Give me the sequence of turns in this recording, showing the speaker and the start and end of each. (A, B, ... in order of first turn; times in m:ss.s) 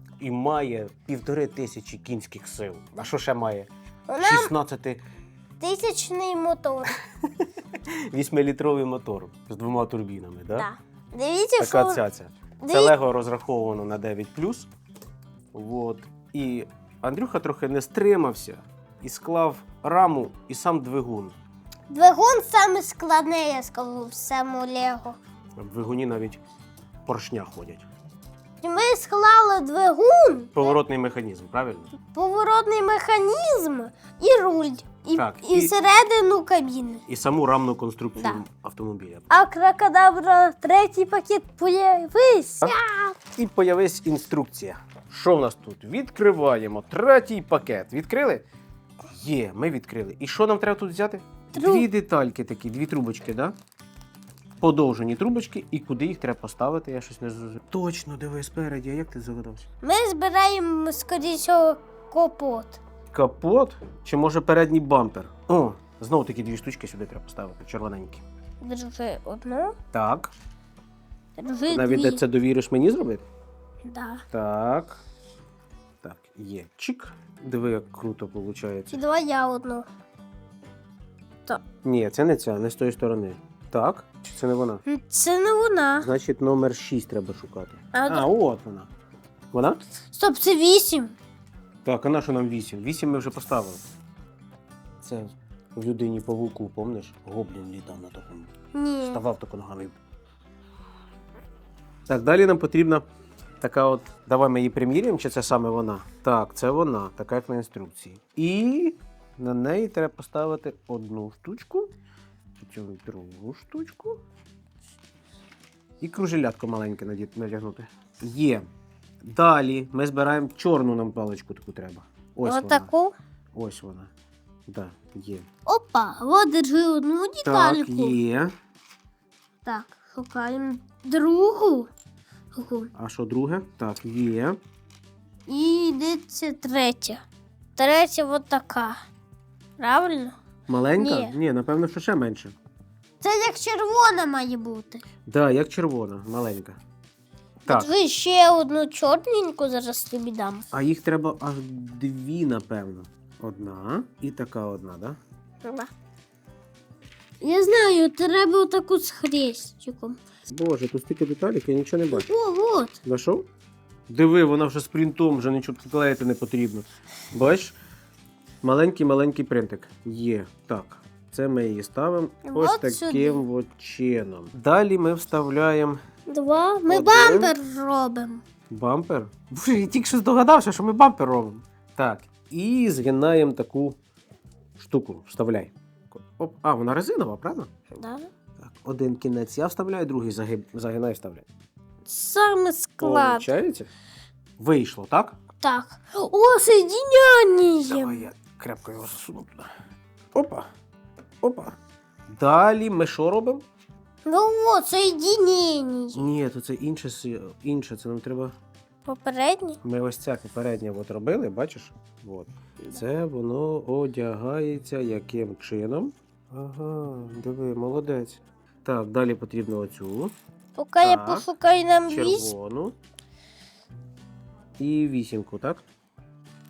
0:00.2-0:05.0 A
0:04.1-0:04.5 B
0:05.6-0:07.0 B
0:07.4-0:10.7 A
0:10.6-0:12.0 B
0:11.6-0:14.7 A
0:12.6-0:12.9 B
0:15.5-0:21.4 A
0:21.9-0:25.2 B
0:25.6-0:26.4 A
0:27.0-0:27.9 A
0:28.6-0:30.7 B
0:30.5-0:31.9 A
0:32.1-0:37.0 B
0:35.1-0:35.7 A
0:37.1-0:39.3 A
0:39.3-0:43.1 B
0:42.6-0:48.4 A
0:49.1-0:53.5 A
0:51.5-0:51.9 B
0:54.6-0:59.7 A
0:59.8-1:02.8 B
1:03.1-1:08.2 A
1:08.6-1:09.8 B
1:09.9-1:10.3 A
1:11.4-1:12.2 B
1:11.7-1:13.2 A
1:13.8-1:14.2 B
1:14.3-1:15.0 A
1:16.0-1:19.0 A
1:18.9-1:19.8 B
1:21.8-1:24.8 A
1:24.8-1:26.1 B
1:26.0-1:28.9 A
1:27.9-1:28.3 B
1:29.5-1:29.8 A
1:30.1-1:31.1 B
1:31.8-1:33.8 A
1:35.0-1:38.5 A
1:38.7-1:39.2 B
1:39.0-1:40.0 A
1:42.1-1:43.0 A
1:43.6-1:51.9 A
1:52.6-1:54.2 A
1:56.0-1:58.7 A
1:59.2-2:02.9 A
2:02.4-2:03.1 B
2:03.5-2:04.1 A
2:04.7-2:05.4 A
2:05.6-2:08.2 B
2:07.4-2:08.5 A
2:09.6-2:11.9 B
2:12.5-2:12.9 B
2:12.9-2:14.6 A
2:15.5-2:17.2 B
2:17.8-2:19.0 B
2:19.8-2:20.4 B
2:20.7-2:22.5 A
2:21.0-2:21.3 B
2:23.2-2:25.0 B
2:25.2-2:26.8 A
2:27.6-2:30.6 B
2:30.7-2:35.2 A
2:35.6-2:35.9 B
2:37.4-2:40.2 B
2:40.4-2:42.2 A
2:42.1-2:43.0 B
2:43.0-2:43.4 A
2:44.1-2:47.8 A
2:48.6-2:56.0 A
2:52.4-2:53.4 B
2:56.3-2:58.4 B
2:56.9-2:57.5 A
2:58.7-3:04.0 A
3:04.8-3:07.9 A
3:08.0-3:08.3 B
3:08.6-3:11.4 A
3:12.0-3:13.5 B
3:13.0-3:13.9 A
3:14.6-3:15.4 A
3:15.6-3:18.3 B
3:17.8-3:19.7 A
3:20.3-3:20.7 A
3:21.4-3:21.8 A
3:22.3-3:23.6 A
3:24.2-3:26.2 B
3:26.1-3:28.5 A
3:29.0-3:29.8 B
3:29.8-3:40.3 A
3:40.7-3:42.5 B
3:41.0-3:41.5 A
3:42.1-3:43.0 A
3:44.8-3:45.8 A